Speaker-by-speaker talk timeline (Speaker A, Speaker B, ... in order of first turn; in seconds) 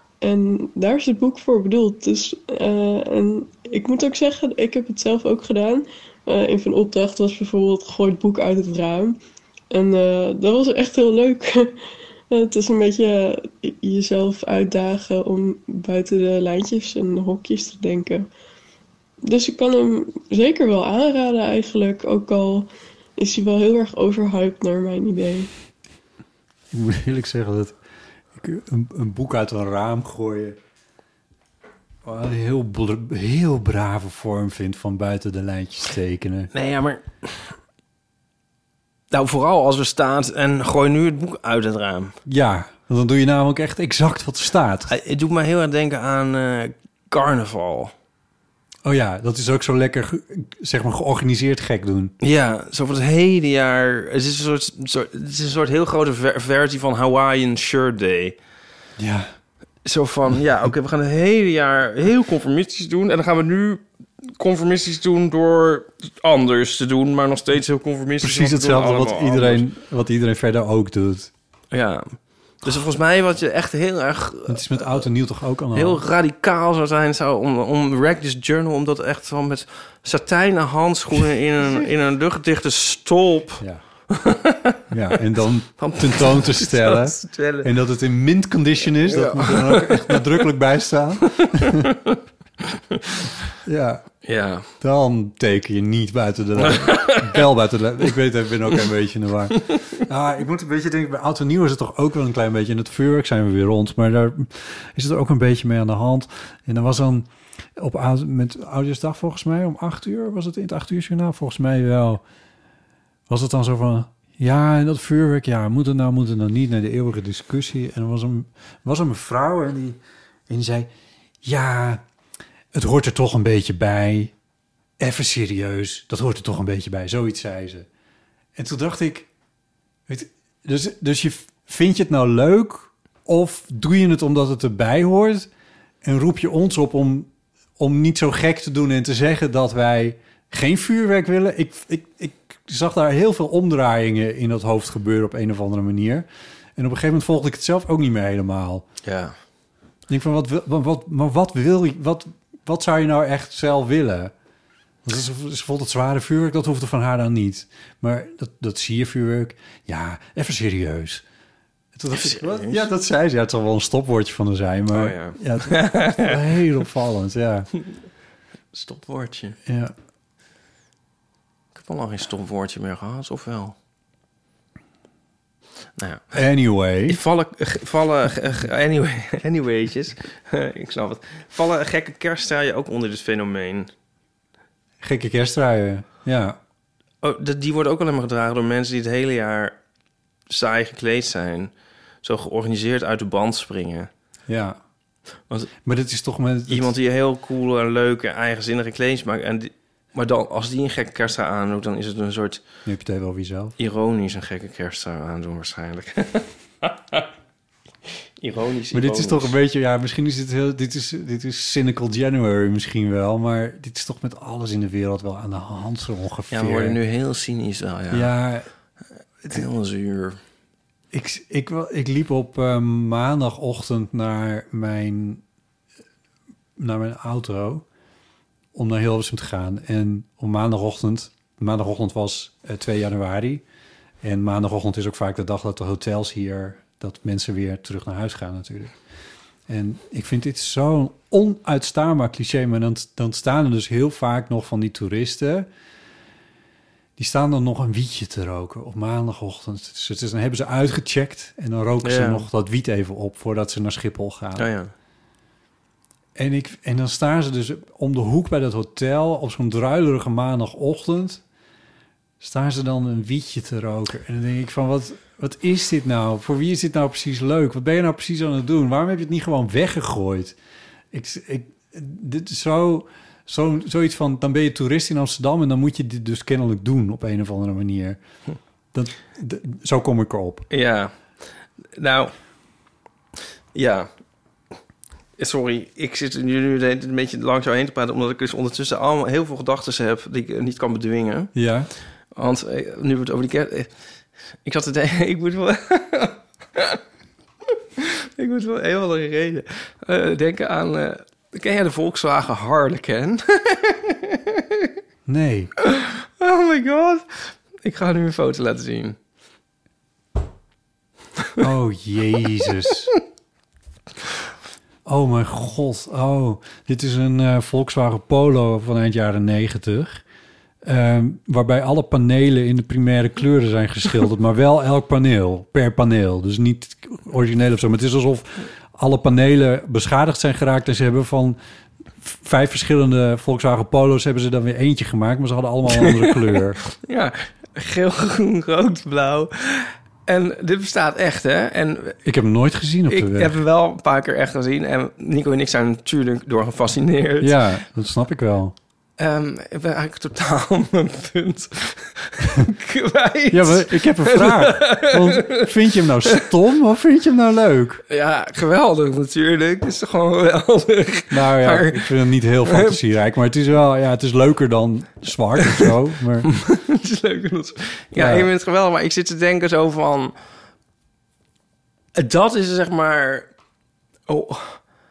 Speaker A: 0.2-9.2, 9.7-11.8, 12.3-18.3, 19.2-25.5
Speaker B: 26.7-27.8, 28.4-30.6, 32.0-36.5, 42.3-44.9, 48.8-52.1, 59.0-59.3, 68.2-71.3, 74.5-76.0, 84.9-91.9, 93.6-94.1, 94.8-112.2, 113.3-120.9, 121.4-122.0, 122.7-124.3, 125.0-127.9, 128.6-129.3, 130.1-135.5, 136.0-148.8, 150.1-154.3, 155.0-161.2, 161.9-167.7, 169.7-169.9, 176.3-177.2, 185.0-186.6, 194.5-194.8, 195.8-196.9, 202.8-203.7, 208.9-217.0, 218.1-218.7, 221.1-225.4, 226.8-227.8, 228.7-233.6, 234.2-238.9, 239.7-245.7, 247.2-254.7, 256.4-261.4, 262.4-270.6, 271.1-278.2, 278.9-280.7, 291.5-291.9, 305.2-305.7, 311.6-313.1, 315.1-320.2, 320.8-331.6, 332.2-336.8, 342.2-343.6, 347.4-348.7, 353.5-358.0, 361.3-366.5, 368.1-368.5
Speaker C: 36.5-37.5, 39.1-42.2, 44.9-47.9, 52.2-58.4, 59.8-69.6, 71.7-75.1, 75.7-84.8, 85.8-87.7, 89.0-90.3, 91.3-92.2, 94.2-94.7, 96.6-97.4, 149.0-149.3, 162.1-162.8, 164.9-166.4, 168.7-169.6, 171.7-173.8, 176.0-176.4, 177.1-183.9, 187.2-189.8, 190.5-191.7, 192.2-194.1, 196.7-202.6, 203.8-207.3, 208.4-209.5, 216.5-218.3, 219.5-220.4, 252.0-252.4, 254.6-254.9, 280.7-281.1, 281.9-282.3, 283.7-284.1, 285.4-291.5, 292.3-293.9, 294.6-297.0, 298.0-304.9, 305.8-309.1, 335.9-342.2, 343.1-347.6, 349.2-356.5, 358.1-363.0, 366.5-370.3, 372.1-373.5, 374.3-374.8